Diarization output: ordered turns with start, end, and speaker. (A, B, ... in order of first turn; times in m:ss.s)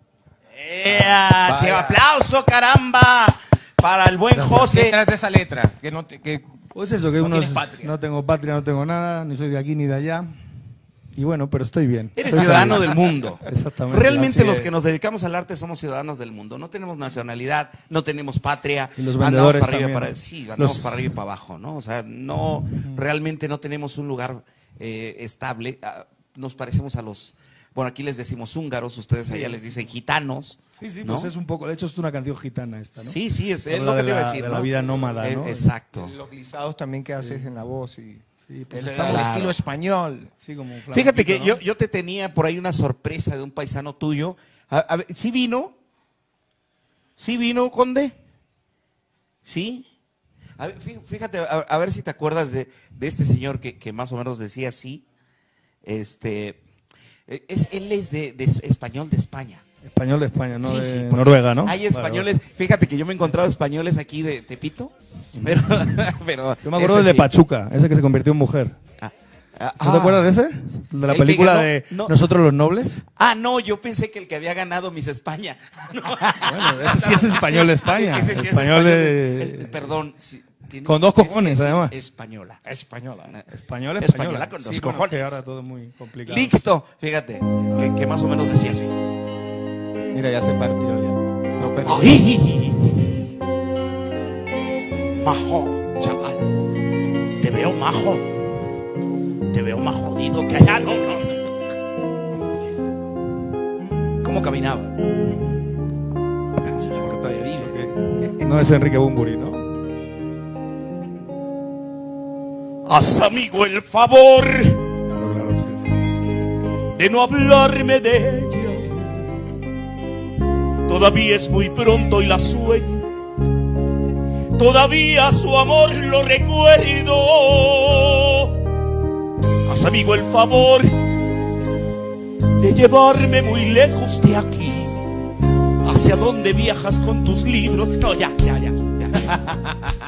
0:00.5-0:05.0 A
0:01.4-0:02.0 B
0:04.3-0:04.7 C
0:04.6-0:06.5 B
0:06.8-0:10.3 C
0:07.2-0:07.9 B
0:11.2-0:12.9 C
0:12.2-0:31.3 A
0:13.4-0:14.7 C
0:19.0-0:21.0 C
0:29.3-0:29.8 C
0:30.8-0:35.7 C
0:33.0-0:36.1 A
0:35.9-0:40.3 B
0:37.2-0:37.5 C
0:38.5-0:39.4 C
0:38.9-0:39.6 A
0:40.4-0:41.6 C
0:40.9-0:45.7 A
0:47.2-0:48.2 A
0:49.4-0:49.8 A
0:50.6-0:55.0 A
0:55.8-0:56.6 A
0:57.3-0:59.6 A
0:59.8-1:02.3 C
1:00.6-1:07.3 A
1:06.6-1:08.8 C
1:09.0-1:10.3 A
1:09.8-1:13.0 C
1:11.1-1:12.1 A
1:13.2-1:22.6 A
1:16.4-1:20.0 C
1:20.8-1:21.9 C
1:22.7-1:23.4 B
1:23.5-1:26.6 C
1:24.0-1:25.4 A
1:26.3-1:28.9 A
1:27.7-1:28.0 C
1:30.1-1:32.3 B
1:31.8-1:33.1 A
1:35.2-1:35.8 A
1:36.0-1:36.5 B
1:37.4-1:38.4 A
1:39.5-1:41.5 A
1:44.2-1:45.0 A
1:46.8-1:47.8 A
1:47.6-1:49.7 C
1:52.8-1:54.9 A
1:55.1-1:56.0 C
1:57.0-1:59.3 A
2:00.9-2:03.1 A
2:04.6-2:08.5 A
2:09.6-2:11.0 A
2:12.6-2:15.0 A
2:15.8-2:19.4 A
2:19.2-2:20.0 B